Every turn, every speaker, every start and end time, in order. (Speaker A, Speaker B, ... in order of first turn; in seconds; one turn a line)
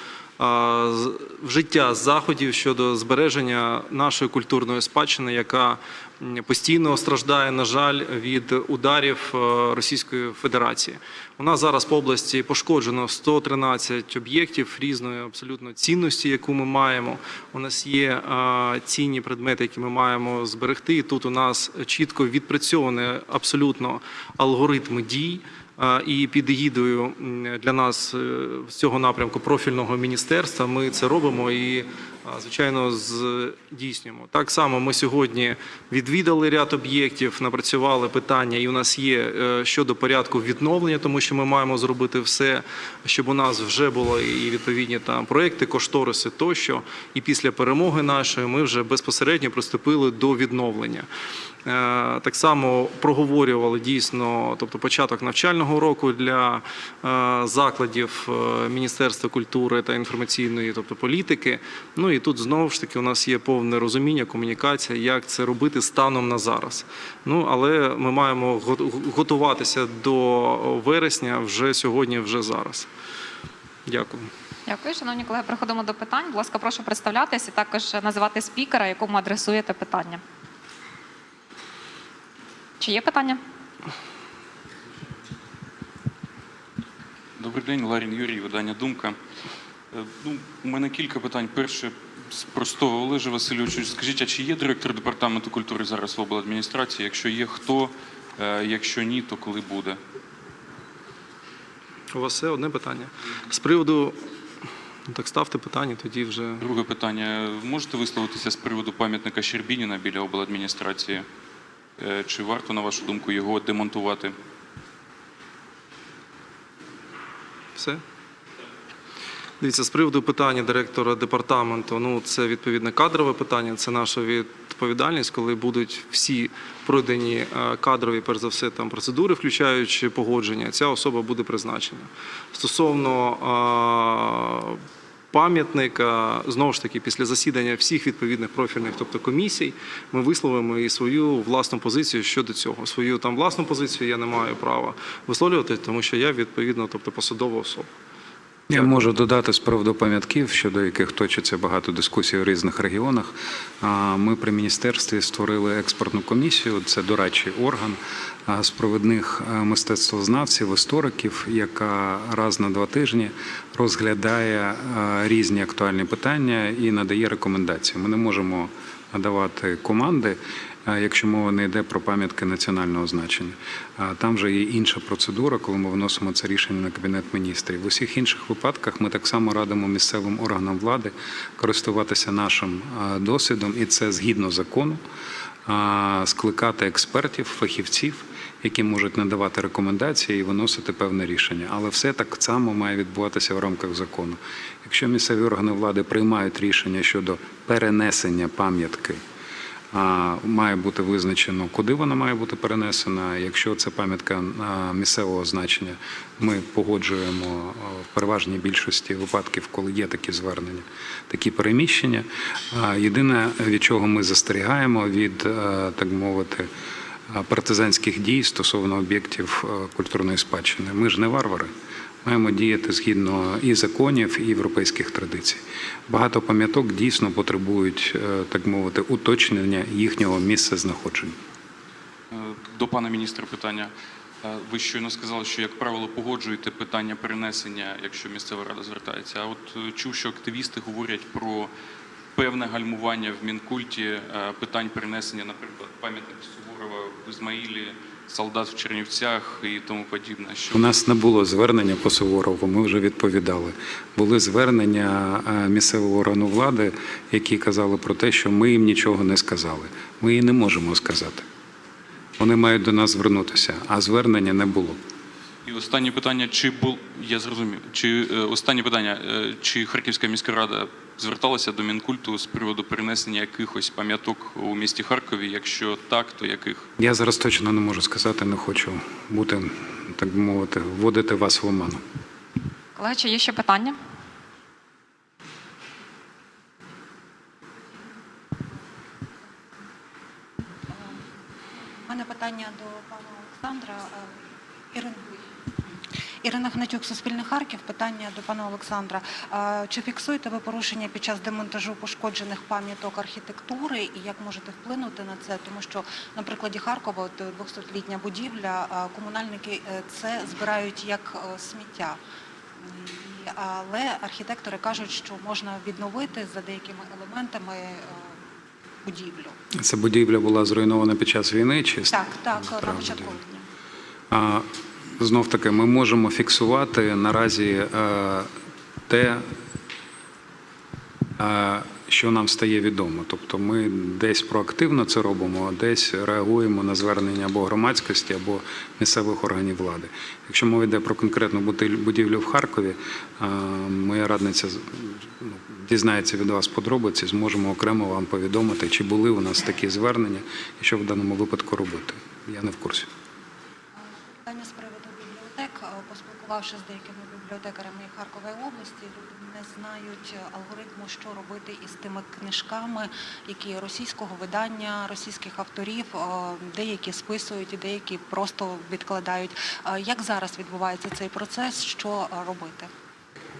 Speaker A: 0.4-51.1
Speaker A: 51.6-72.9
Speaker A: 73.8-74.3
Speaker B: 74.7-80.2
Speaker B: 82.8-83.4
Speaker C: 87.4-89.2
Speaker C: 89.9-100.0
Speaker A: 102.1-104.2
Speaker A: 105.1-106.6
Speaker C: 106.6-111.2
Speaker C: 112.0-114.3
Speaker A: 117.8-118.0
Speaker A: 119.6-147.9
Speaker D: 148.7-185.0
Speaker D: 185.7-199.2
Speaker D: 199.9-216.7
Speaker D: 217.3-221.7
Speaker D: 222.2-231.3
Speaker C: 232.3-233.9
Speaker C: 234.4-241.7
Speaker C: 242.3-250.8
Speaker D: 250.7-261.5
Speaker D: 262.4-265.0
Speaker C: 265.6-276.9
Speaker D: 277.0-282.0
Speaker B: 282.9-284.0
Speaker E: 290.9-291.2
Speaker E: 291.9-294.3
Speaker E: 294.9-295.5
Speaker E: 296.4-312.2
Speaker E: 312.8-318.4
Speaker E: 319.0-319.6
Speaker D: 319.8-323.3
Speaker E: 322.1-323.6
Speaker D: 324.3-324.7
Speaker D: 325.2-328.5
Speaker D: 329.1-329.4
Speaker D: 331.4-353.1
Speaker E: 354.0-372.9